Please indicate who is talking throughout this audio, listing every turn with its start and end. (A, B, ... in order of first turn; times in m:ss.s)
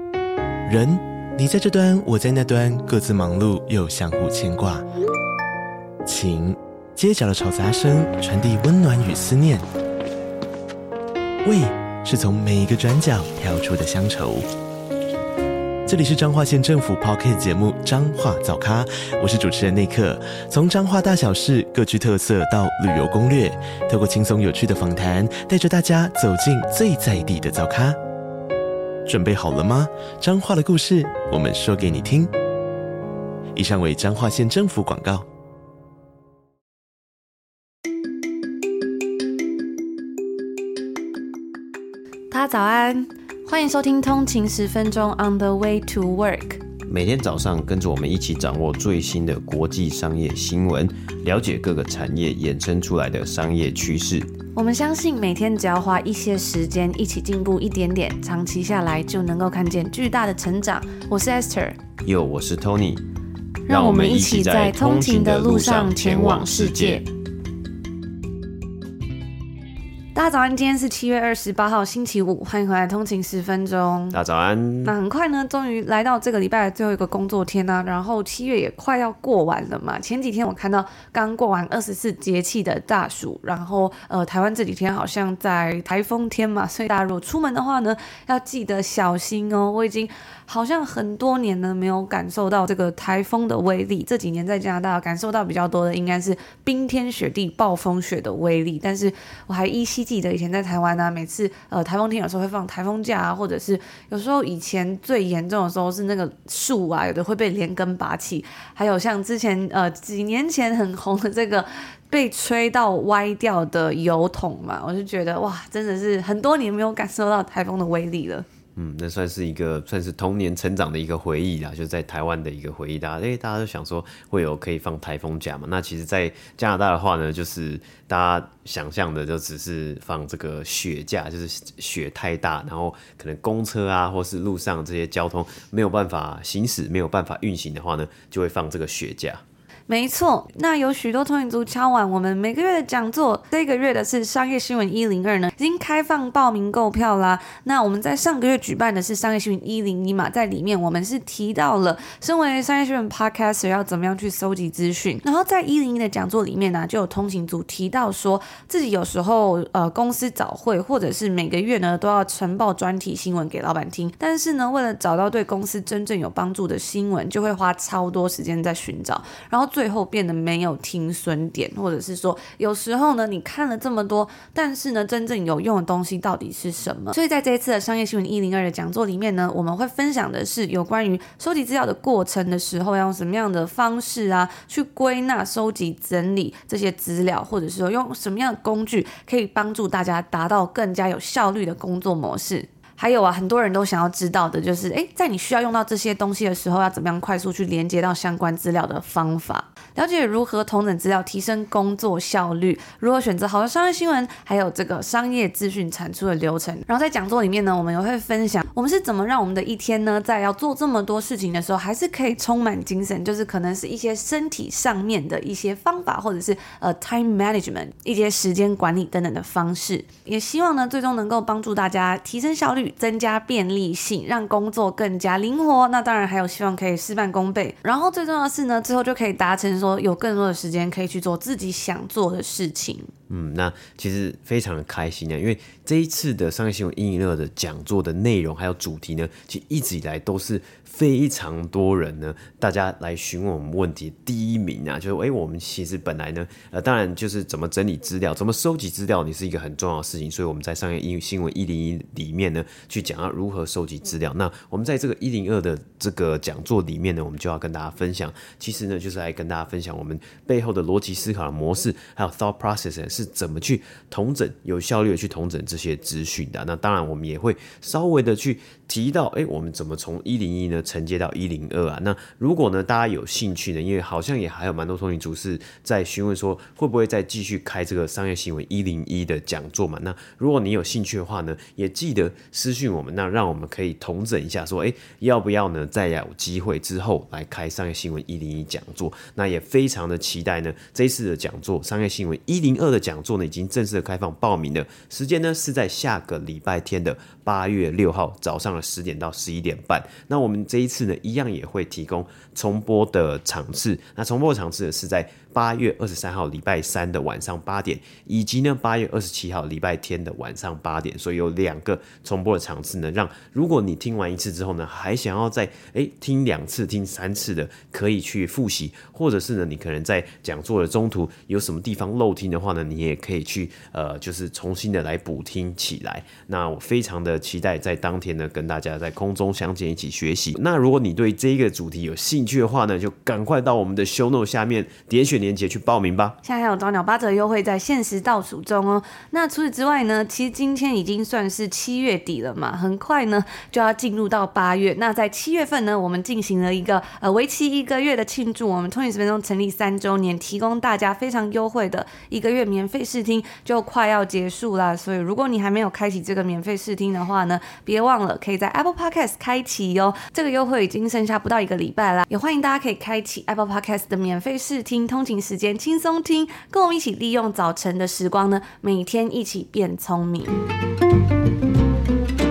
0:00.7-0:04.8 A
0:06.0-0:09.6 A
0:11.4-0:14.5 A
0:15.9-0:28.0 A
0:29.1-0:32.3 A
0:33.5-0:35.2 A
0:42.3-0:46.6 B
0:46.9-0:54.3 C
0:54.6-1:01.8 B
1:02.0-1:03.0 C
1:03.7-1:07.1 B
1:03.7-1:07.0 C
1:10.2-1:14.2 B
1:14.1-1:15.0 C
1:14.8-1:58.5 B
1:58.8-2:19.4 C
2:19.9-3:53.1 B
3:53.3-5:36.4 C
5:36.4-6:10.6 B